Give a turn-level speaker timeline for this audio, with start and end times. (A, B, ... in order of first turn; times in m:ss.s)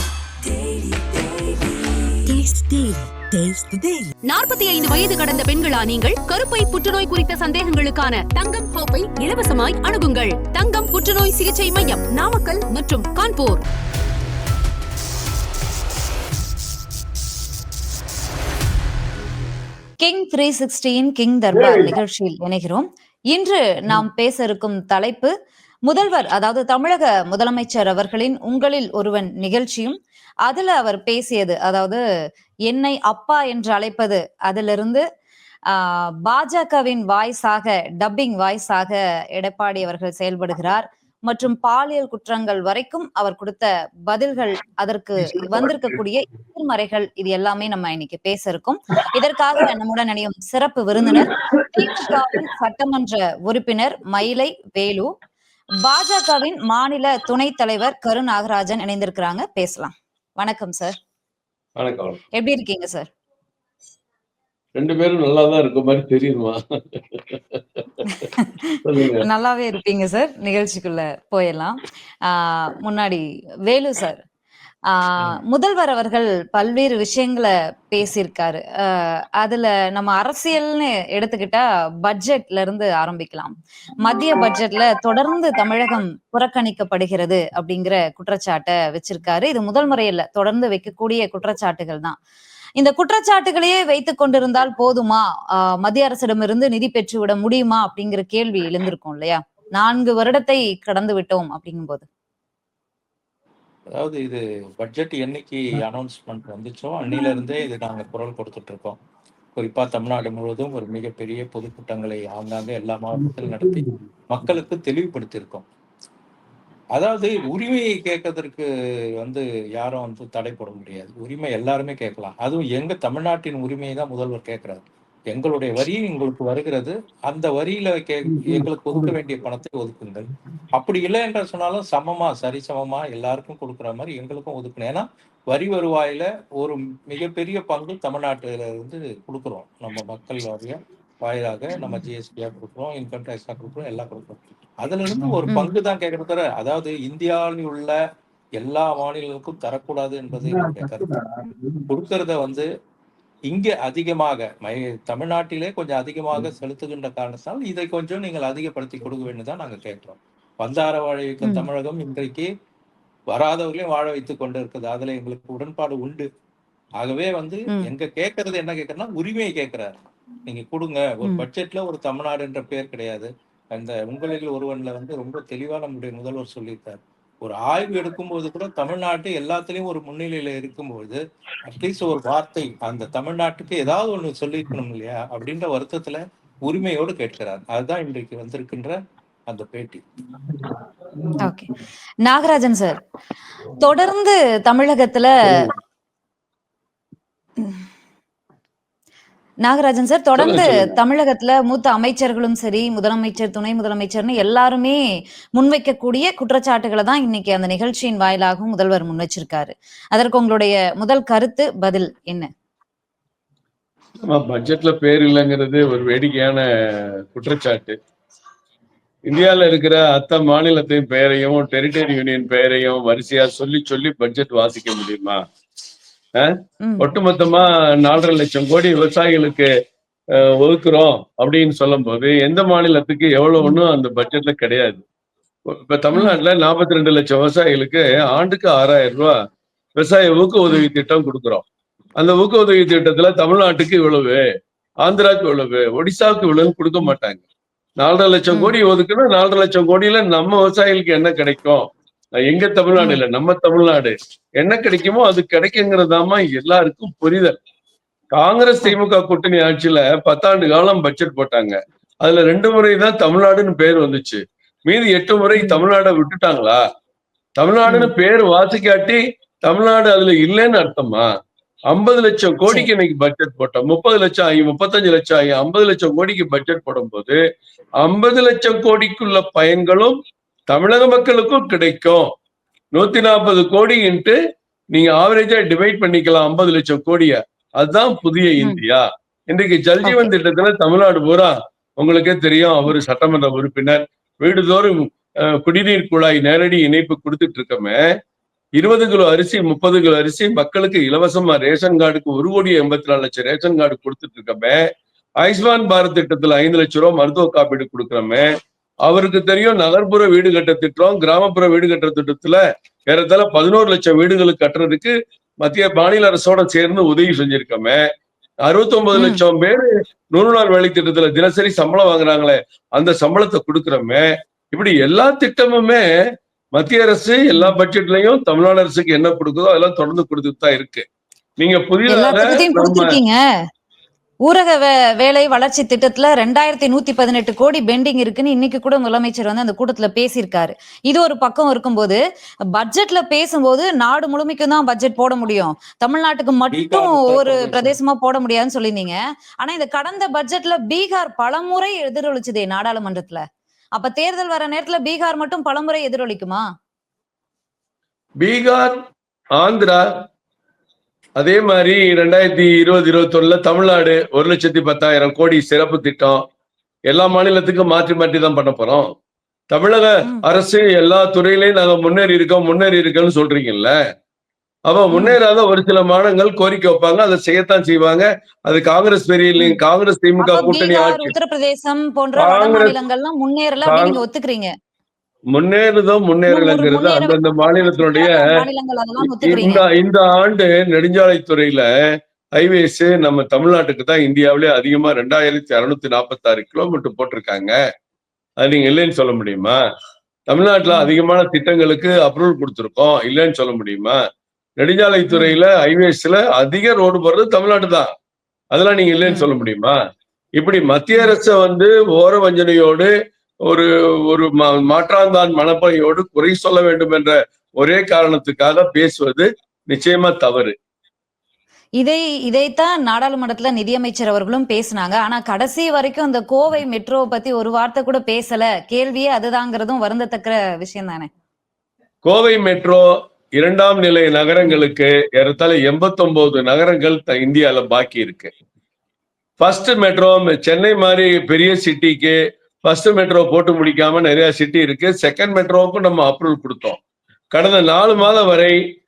0:00.5-0:01.5 A
0:02.2-0:04.1 A
0:04.2-0:13.6 B
0:20.0-0:25.3 C
0:21.5-0:22.0 D
0:25.9-0:32.0 C
0:32.7-0:35.0 C
0:35.7-0:55.1 C
0:45.3-0:45.7 D
0:51.0-0:52.1 D
0:55.8-1:00.9 C
1:01.8-1:02.2 D
1:02.4-1:03.1 C
1:04.8-1:08.0 D
1:08.0-1:08.5 C
1:08.8-1:09.3 D
1:09.2-1:14.2 C
1:14.9-1:32.2 C
1:32.8-1:35.2 C
1:35.8-1:42.0 C
1:44.0-1:49.0 E
1:49.6-1:55.6 E
1:56.9-1:58.7 E
1:59.2-2:28.0 E
2:28.6-2:31.2 E
2:31.8-2:32.7 E
2:33.5-2:42.5 E
2:43.3-2:46.3 E
2:47.0-2:49.9 E
2:50.4-3:09.0 E
3:09.5-3:10.0 E
3:11.4-3:11.7 C
3:12.2-3:13.0 C
3:13.8-3:15.6 C
3:19.6-3:25.0 C
3:20.4-3:20.9 D
3:25.6-3:32.5 C
3:34.2-3:38.0 D
3:39.3-3:45.4 D
3:46.4-3:49.7 D
3:46.8-3:47.1 C
3:50.3-3:55.0 D
3:55.7-3:59.4 D
3:56.1-3:56.4 C
4:00.0-4:01.6 D
4:02.2-4:04.4 D
4:05.0-4:07.4 D
4:08.0-4:11.9 D
4:12.4-4:17.6 D
4:18.3-4:26.8 D
4:25.5-4:25.8 C
4:27.6-4:31.3 D
4:27.9-4:28.1 C
4:31.9-4:37.4 D
4:38.0-4:42.3 D
4:42.9-4:44.4 D
4:44.9-4:58.0 D
4:50.0-4:50.3 C
4:58.8-5:04.8 D
5:05.4-5:08.5 D
5:09.0-5:18.0 D
5:18.6-5:26.0 D
5:19.1-5:19.4 C
5:26.7-5:31.0 D
5:31.6-5:33.2 D
5:32.1-5:33.4 C
5:34.4-5:42.2 C
5:42.7-5:53.4 C
5:46.7-5:47.9 E
5:54.0-5:56.6 C
5:58.4-5:59.0 D
5:59.6-6:00.2 D
6:01.4-6:06.4 D
6:07.1-6:09.1 D
6:09.7-6:13.9 D
6:14.9-6:21.3 D
6:20.4-6:24.7 C
6:22.4-6:23.0 D
6:23.8-6:24.2 D
6:25.5-6:28.6 D
6:26.5-6:29.8 C
6:29.2-6:31.9 D
6:32.6-6:37.7 D
6:38.6-6:39.8 D
6:40.5-6:44.2 D
6:40.9-6:41.1 C
6:44.8-6:48.1 D
6:45.3-6:45.6 C
6:48.7-6:50.0 D
6:50.6-6:53.1 D
6:53.7-7:00.8 D
7:02.0-7:11.3 C
7:12.2-7:18.5 D
7:19.6-7:27.0 D
7:27.5-7:28.8 D